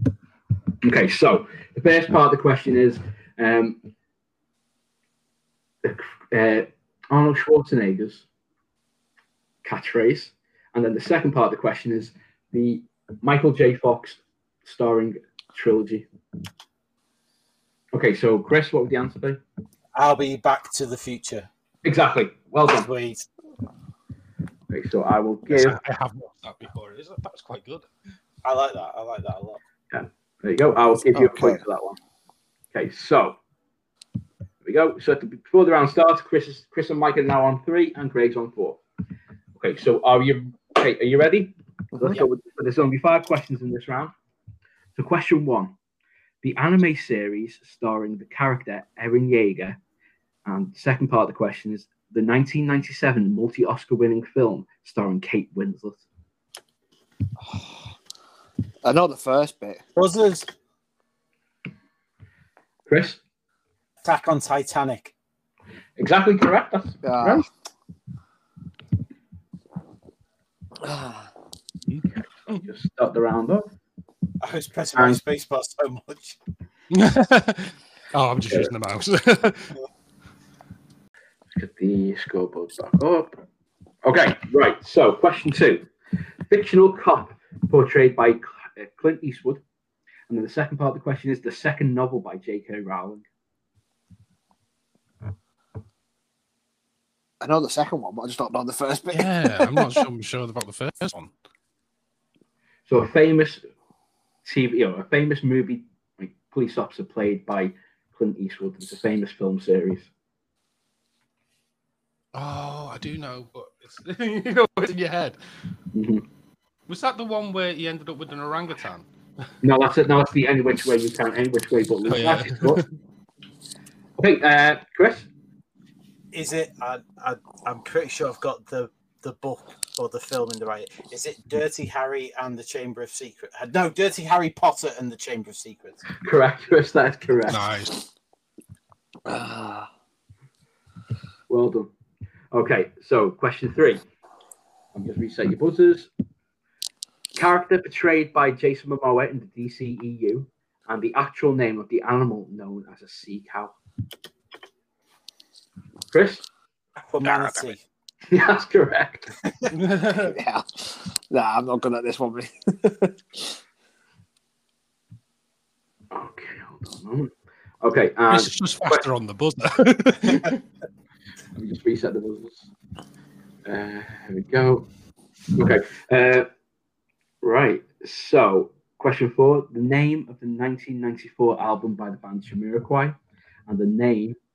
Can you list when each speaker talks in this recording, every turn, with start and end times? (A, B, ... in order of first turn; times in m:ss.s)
0:00.8-0:03.8 A
0:05.8-0:08.2 A
0:09.6-0:16.1 A
0:17.9-0:19.4 A
0:20.0-0:21.5 B
0:21.8-0:22.9 A
0:22.7-0:23.3 B
0:24.7-0:25.8 A
0:25.5-0:27.9 C
0:28.4-0:29.6 B
0:29.9-0:32.0 A
0:31.1-0:31.6 D
0:32.7-0:33.4 A
0:34.6-0:38.8 A
0:39.6-0:44.1 A
0:45.0-0:45.7 A
0:46.4-0:49.8 A
0:50.4-0:56.0 A
0:57.4-0:57.8 D
0:58.8-0:59.8 D
1:00.0-1:00.5 B
1:02.9-1:03.2 A
1:04.0-1:05.1 B
1:06.0-1:07.5 A
1:07.0-1:07.5 D
1:10.8-1:11.3 D
1:11.9-1:12.6 C
1:12.4-1:13.7 A
1:14.4-1:16.4 B
1:15.0-1:15.2 A
1:16.9-1:19.7 C
1:21.6-1:23.3 A
1:24.0-1:25.9 A
1:26.5-1:29.6 A
1:30.3-1:33.2 A
1:37.4-1:40.0 D
1:39.1-1:41.3 C
1:42.9-1:43.6 A
1:44.4-1:50.1 A
1:52.3-1:55.4 C
1:55.9-1:56.2 A
1:56.9-1:59.1 C
1:59.6-2:02.8 A
2:02.1-2:02.9 C
2:04.2-2:05.3 A
2:06.3-2:16.0 B
2:16.2-2:17.6 A
2:17.5-2:17.9 C
2:19.3-2:19.9 D
2:21.5-2:21.9 A
2:22.5-2:24.0 A
2:25.0-2:26.1 A
2:27.4-2:33.7 A
2:36.1-2:36.4 A
2:37.1-2:37.8 B
2:37.2-2:37.7 C
2:38.3-2:39.3 A
2:39.7-2:40.4 C
2:40.0-2:43.5 D
2:46.1-2:49.0 A
2:48.3-2:50.6 C
2:51.6-2:52.7 A
2:53.7-2:54.9 A
2:55.6-2:56.5 A
2:57.4-3:04.4 A